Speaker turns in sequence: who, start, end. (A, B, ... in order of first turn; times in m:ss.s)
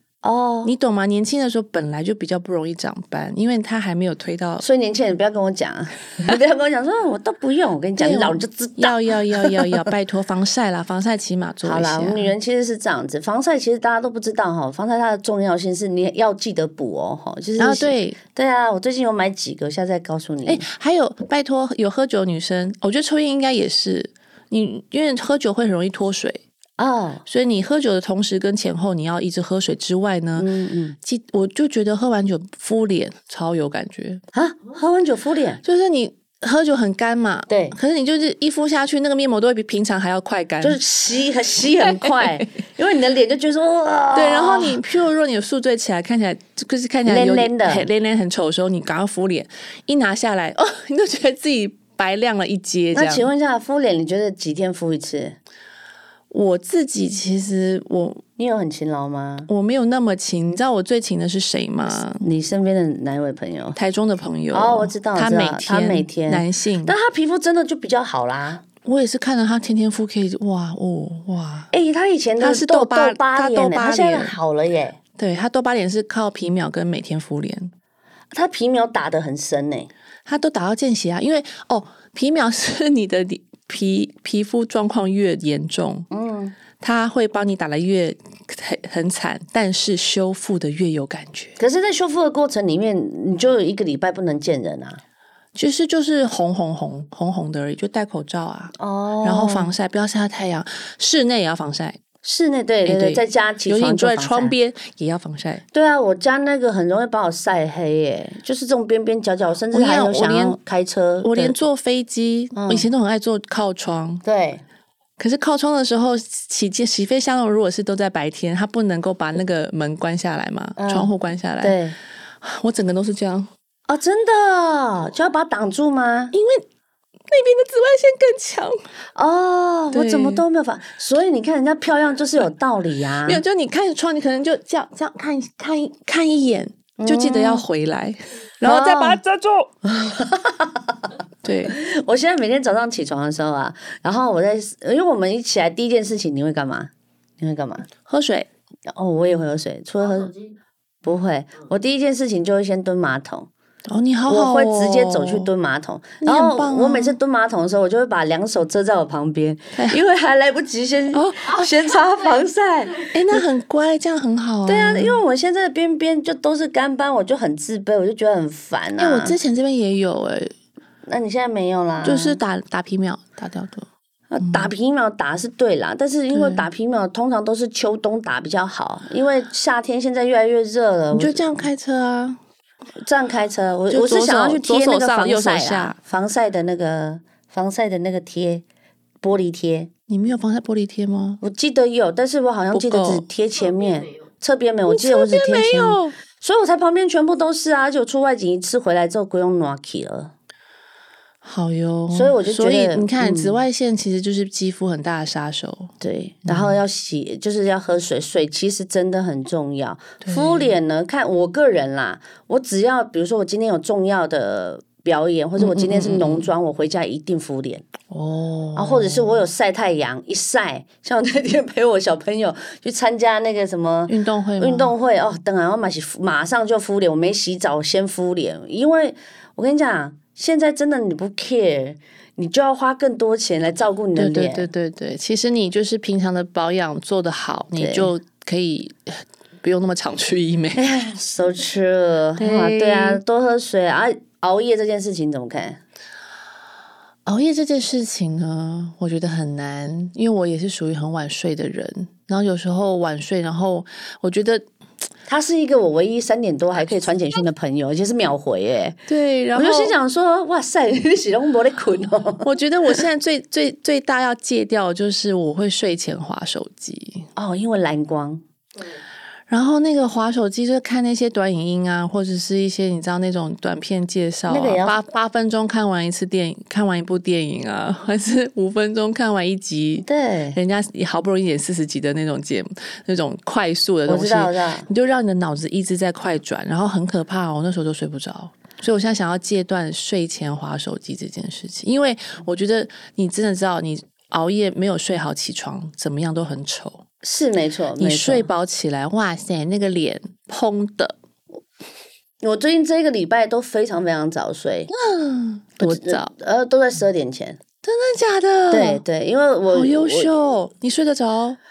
0:00.2-0:00.7 A
0:00.6-0:04.6 B
0:04.6-0:09.9 A
0:08.0-0:12.3 B
0:11.6-0:20.7 A
0:17.6-0:18.2 B
0:20.5-0:26.4 B
0:26.8-0:27.2 A
0:27.3-0:30.5 B
0:30.4-0:31.0 A
0:31.0-0:34.2 B
0:34.3-0:35.6 A
0:35.6-0:40.8 B
0:37.5-0:37.8 A
0:40.6-0:44.8 A
0:41.8-0:42.4 B
0:44.1-0:53.3 B
0:47.1-0:47.9 A
0:52.9-0:55.4 A
0:56.3-0:58.2 B
0:58.4-0:59.5 A
0:59.5-1:02.3 B
1:02.1-1:03.8 A
1:03.8-1:07.0 B
1:04.5-1:08.7 A
1:08.8-1:11.7 B
1:11.7-1:15.0 A
1:12.4-1:14.4 B
1:15.2-1:17.7 B
1:18.3-1:19.9 A
1:20.3-1:26.1 B
1:26.1-1:26.6 A
1:26.8-1:31.6 B
1:31.6-1:35.0 A
1:35.6-1:42.0 B
1:38.8-1:39.7 A
1:42.2-1:44.5 A
1:42.8-1:45.6 B
1:45.7-1:51.6 A
1:49.7-1:50.6 B
1:51.2-1:54.2 B
1:52.6-1:52.9 A
1:54.2-1:54.6 A
1:55.2-2:01.8 B
2:00.8-2:02.0 A
2:02.4-2:03.5 B
2:03.9-2:06.3 A
2:06.3-2:06.6 B
2:07.3-2:08.8 B
2:09.2-2:13.4 A
2:09.9-2:10.4 B
2:13.2-2:19.7 B
2:17.0-2:17.6 A
2:18.6-2:19.2 A
2:19.8-2:21.1 A
2:21.4-2:21.8 B
2:21.6-2:27.9 A
2:28.0-2:28.5 B
2:28.9-2:30.4 A
2:31.0-2:33.5 A
2:33.9-2:35.5 B
2:34.3-2:43.4 A
2:36.2-2:37.2 B
2:41.1-2:42.0 B
2:43.1-2:45.2 B
2:44.7-2:49.4 A
2:49.0-2:50.5 B
2:51.1-2:52.4 A
2:52.0-2:53.9 B
2:54.3-3:01.6 A
2:54.4-2:54.7 B
2:56.3-2:56.7 B
3:01.1-3:02.4 B
3:03.0-3:08.6 A
3:03.9-3:06.0 B
3:09.2-3:09.9 A
3:10.1-3:11.4 B
3:11.4-3:20.3 A
3:12.7-3:13.2 B
3:14.9-3:16.2 B
3:21.4-3:25.9 B
3:22.1-3:23.6 A
3:26.0-3:37.9 A
3:26.4-3:26.8 B
3:30.2-3:30.7 B
3:35.6-3:36.5 B
3:38.1-3:39.5 B
3:38.8-3:54.7 A
3:44.1-3:44.9 B
3:54.2-4:00.8 B
3:57.8-3:58.1 A
4:00.8-4:05.8 A
4:02.4-4:03.2 B
4:07.3-4:14.6 B
4:15.3-4:19.0 A
4:19.1-4:19.9 B
4:19.6-4:22.5 A
4:22.4-4:27.3 B
4:27.4-4:28.4 A
4:29.5-4:57.0 B
4:34.5-4:35.0 A
4:40.0-4:40.6 A
4:44.1-4:44.9 A
4:57.2-4:58.5 A
4:58.0-5:01.2 B
5:02.4-5:04.9 A
5:04.9-5:06.3 B
5:05.8-5:07.6 A
5:07.8-5:09.0 B
5:08.7-5:10.3 A
5:09.7-5:11.6 B